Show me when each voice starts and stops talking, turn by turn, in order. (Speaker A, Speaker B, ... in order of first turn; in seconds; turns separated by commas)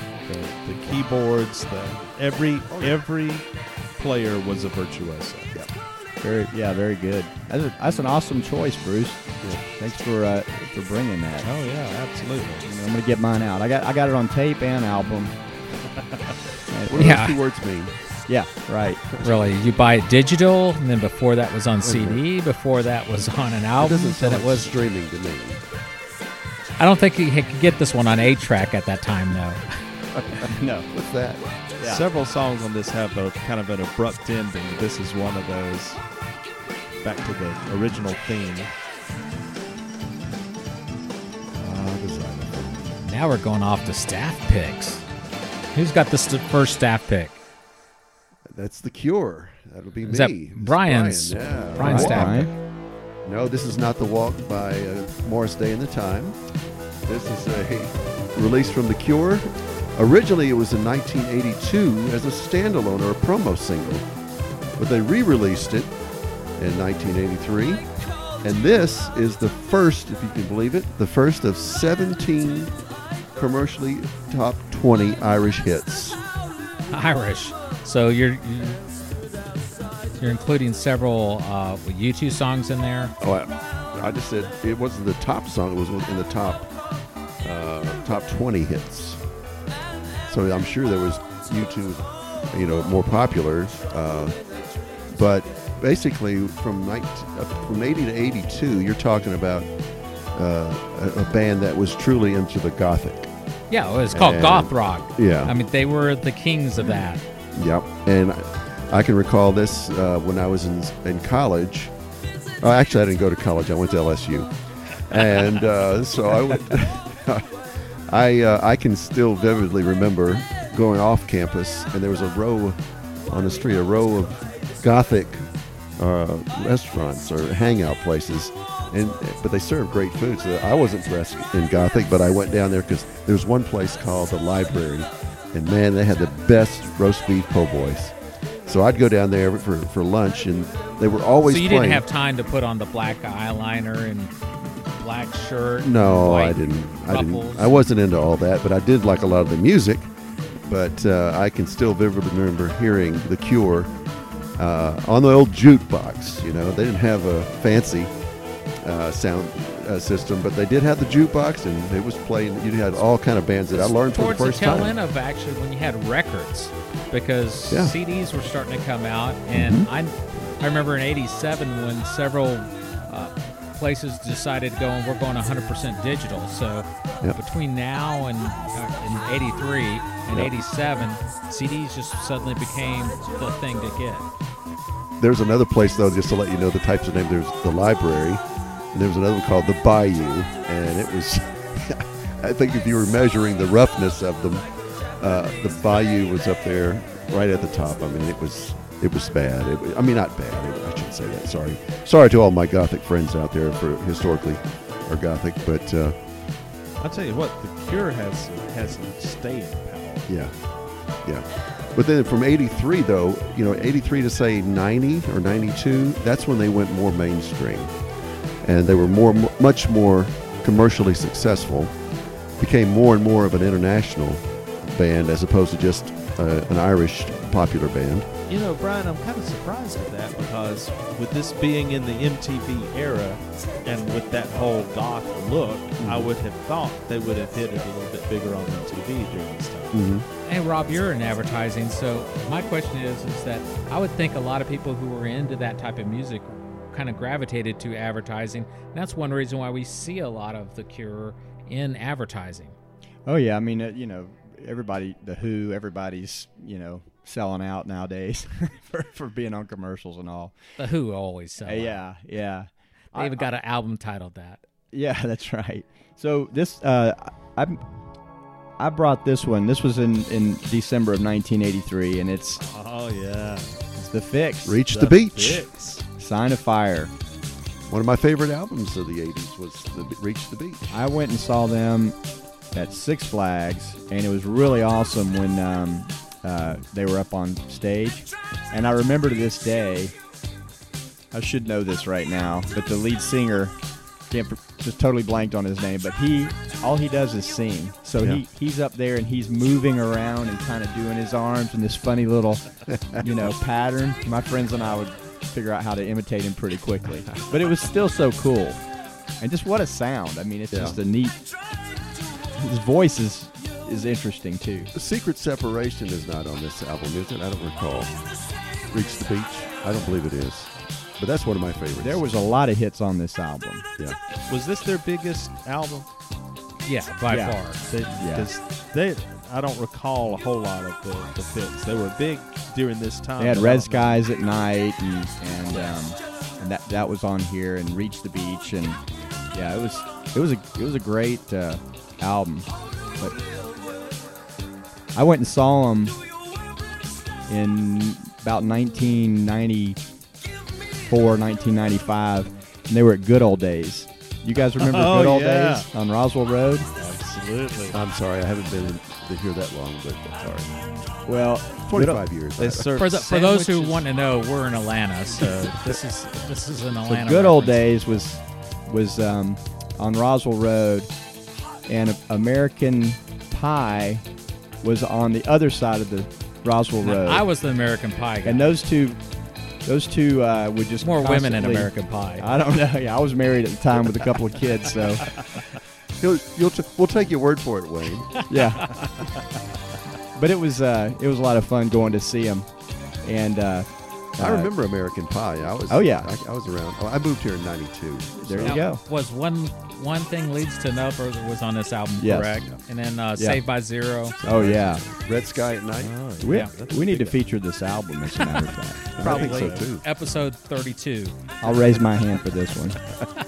Speaker A: 0.2-5.5, Speaker B: 2.7-3.0, Speaker C: 6.2-11.5, Speaker B: 9.4-9.7, Speaker A: 11.4-12.6, Speaker C: 12.6-15.4, Speaker C: 16.7-17.2, Speaker B: 16.9-18.0, Speaker D: 17.0-17.3, Speaker C: 18.3-19.0, Speaker B: 19.1-19.5, Speaker D: 19.2-24.7, Speaker B: 21.8-22.2, Speaker B: 23.8-25.6, Speaker D: 26.8-29.6, Speaker B: 30.2-31.5, Speaker C: 30.5-30.9, Speaker C: 31.8-32.1, Speaker A: 31.8-36.0, Speaker A: 37.0-38.7, Speaker B: 41.6-43.0, Speaker D: 43.0-45.0, Speaker D: 45.7-47.4, Speaker B: 48.5-52.6, Speaker D: 50.1-52.5, Speaker C: 51.8-52.5, Speaker B: 53.2-56.5, Speaker B: 57.0-64.1, Speaker B: 64.8-66.0, Speaker B: 66.5-72.8, Speaker B: 73.3-76.2, Speaker D: 76.9-78.8, Speaker D: 80.2-83.1, Speaker B: 83.2-86.8, Speaker B: 87.4-89.2, Speaker B: 90.2-103.3, Speaker D: 103.7-107.2, Speaker B: 104.1-105.5, Speaker B: 107.5-112.0, Speaker B: 112.6-142.1, Speaker D: 141.4-147.8, Speaker B: 145.8-158.2, Speaker B: 158.8-164.9, Speaker D: 163.7-184.3, Speaker B: 169.5-169.9, Speaker B: 185.2-206.2, Speaker A: 207.0-210.4, Speaker B: 210.3-218.1, Speaker B: 218.6-228.3, Speaker A: 228.5-240.0, Speaker B: 236.0-236.3, Speaker B: 239.9-240.3, Speaker D: 240.4-252.8, Speaker C: 253.3-260.6, Speaker D: 260.8-262.0, Speaker C: 261.6-263.5, Speaker D: 263.1-264.6, Speaker C: 264.9-267.8, Speaker C: 268.8-272.6, Speaker A: 272.6-273.8, Speaker C: 274.0-274.8, Speaker B: 274.6-275.7, Speaker A: 274.9-276.0, Speaker C: 276.2-277.1, Speaker B: 277.9-280.9, Speaker C: 280.9-282.2, Speaker C: 282.7-290.1, Speaker C: 291.3-308.8, Speaker C: 309.4-311.4, Speaker B: 310.7-311.0, Speaker C: 312.6-314.9, Speaker B: 314.9-322.2, Speaker C: 322.0-323.9, Speaker A: 324.5-326.1, Speaker D: 326.9-327.8, Speaker C: 327.3-327.6, Speaker A: 327.9-334.2, Speaker C: 328.1-328.5, Speaker C: 333.4-343.4, Speaker C: 345.1-346.2, Speaker C: 347.5-350.0, Speaker C: 351.0-356.9, Speaker A: 354.8-355.9, Speaker A: 357.0-358.0, Speaker B: 357.9-360.8, Speaker C: 361.3-362.2, Speaker B: 361.8-362.9, Speaker A: 362.6-364.0, Speaker D: 363.0-367.9, Speaker A: 365.4-365.9, Speaker B: 365.4-365.8, Speaker C: 367.0-371.2, Speaker C: 371.9-374.3, Speaker C: 374.8-377.5, Speaker D: 377.0-378.7, Speaker C: 378.4-385.4, Speaker D: 381.0-382.5, Speaker B: 386.2-388.5, Speaker C: 388.5-389.1, Speaker C: 390.4-394.7, Speaker B: 394.4-398.9, Speaker C: 395.9-396.3, Speaker C: 398.4-399.0, Speaker D: 398.6-404.4, Speaker C: 402.2-402.7, Speaker C: 403.4-403.6, Speaker B: 404.4-406.2, Speaker C: 404.4-405.0, Speaker A: 406.0-407.4, Speaker C: 406.4-409.1, Speaker B: 409.2-410.1, Speaker D: 409.2-411.4, Speaker A: 409.2-409.9, Speaker C: 411.6-413.0